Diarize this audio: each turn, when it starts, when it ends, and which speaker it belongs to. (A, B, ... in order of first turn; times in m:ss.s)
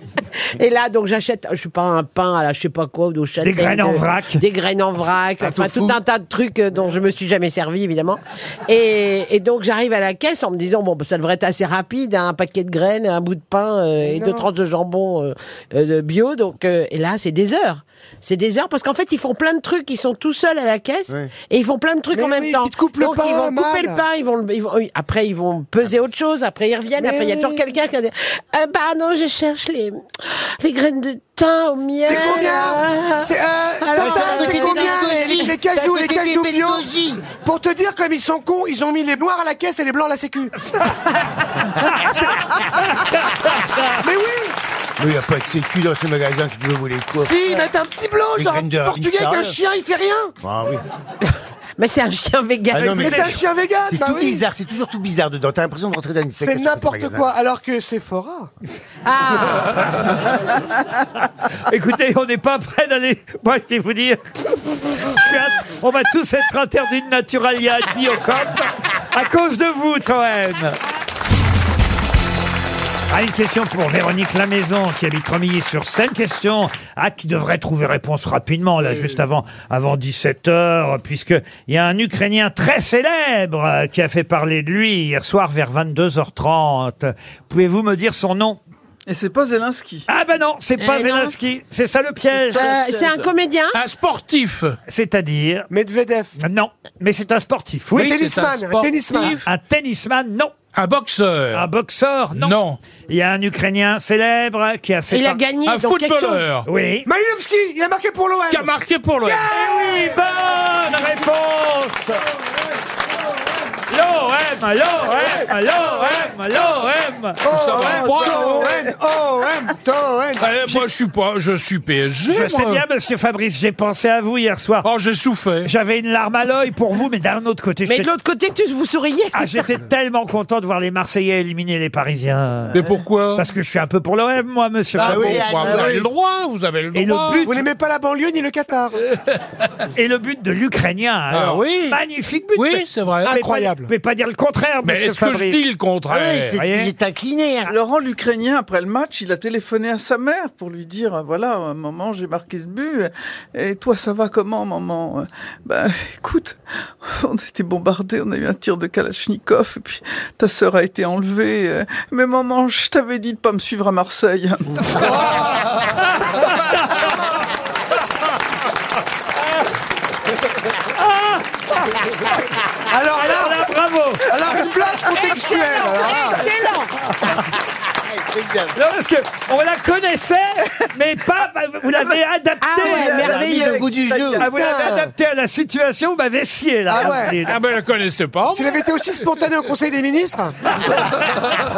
0:00.4-0:33.3 A
0:03.4-0:04.4 B
0:05.4-0:06.0 C
0:14.0-0:14.5 D
0:22.1-0:24.0 D
0:27.0-0:27.6 D
0:32.0-0:40.5 D
0:33.8-0:35.5 A
0:34.0-0:37.2 C
0:41.8-0:42.2 B
0:42.9-0:43.9 B
0:44.0-0:44.5 D
0:45.0-0:47.3 C
0:47.1-0:50.3 D
0:48.3-0:49.6 C
0:50.4-0:50.8 C
0:51.8-0:53.4 A
0:52.7-0:57.3 C
0:53.0-0:54.4 D
0:56.4-0:58.5 D
0:59.0-0:59.7 A
1:01.7-1:10.8 B
1:13.1-1:28.6 B
1:29.1-1:30.0 E
1:30.1-1:32.7 B
1:30.8-1:31.3 A
1:32.4-1:33.3 E
1:32.5-1:33.8 A
1:33.7-1:34.8 F
1:34.9-1:35.7 B
1:35.7-1:36.3 D
1:36.4-1:38.2 B
1:38.0-1:39.4 D
1:38.0-1:39.4 F
1:39.3-1:40.5 B
1:40.7-1:41.6 F
1:41.5-1:45.4 B
1:42.3-1:42.8 F
1:45.1-1:46.4 A
1:45.6-1:46.7 F
1:46.6-1:47.1 B
1:47.0-1:50.1 D
1:48.5-1:49.4 F
1:49.5-1:52.2 B
1:53.9-1:58.0 B
1:57.4-2:00.8 D
1:57.5-1:58.7 F
1:57.8-1:58.9 E
2:00.4-2:02.8 F
2:02.3-2:04.9 B
2:04.8-2:05.7 F
2:05.6-2:08.1 B
2:07.9-2:09.7 A
2:09.3-2:12.8 B
2:12.7-2:13.4 F
2:13.3-2:15.8 B
2:15.0-2:16.1 C
2:15.0-2:17.6 F
2:16.9-2:17.6 B
2:17.4-2:19.0 D
2:19.9-2:25.6 B
2:21.3-2:22.0 F
2:22.5-2:23.3 F
2:23.2-2:23.9 D
2:24.8-2:26.6 F
2:26.1-2:27.7 C
2:26.5-2:26.9 B
2:27.7-2:45.1 E
2:46.0-2:47.1 B
2:50.9-2:51.4 B
2:52.9-2:53.7 D
2:53.2-2:54.8 B
2:54.3-2:56.5 D
2:55.1-2:56.9 A
2:58.1-2:58.7 C
2:58.8-3:03.4 B
3:02.6-3:03.8 A
3:02.8-3:04.5 E
3:03.2-3:04.5 C
3:04.4-3:07.6 B
3:04.5-3:05.1 D
3:06.9-3:07.4 D
3:07.4-3:09.0 F
3:08.5-3:10.6 D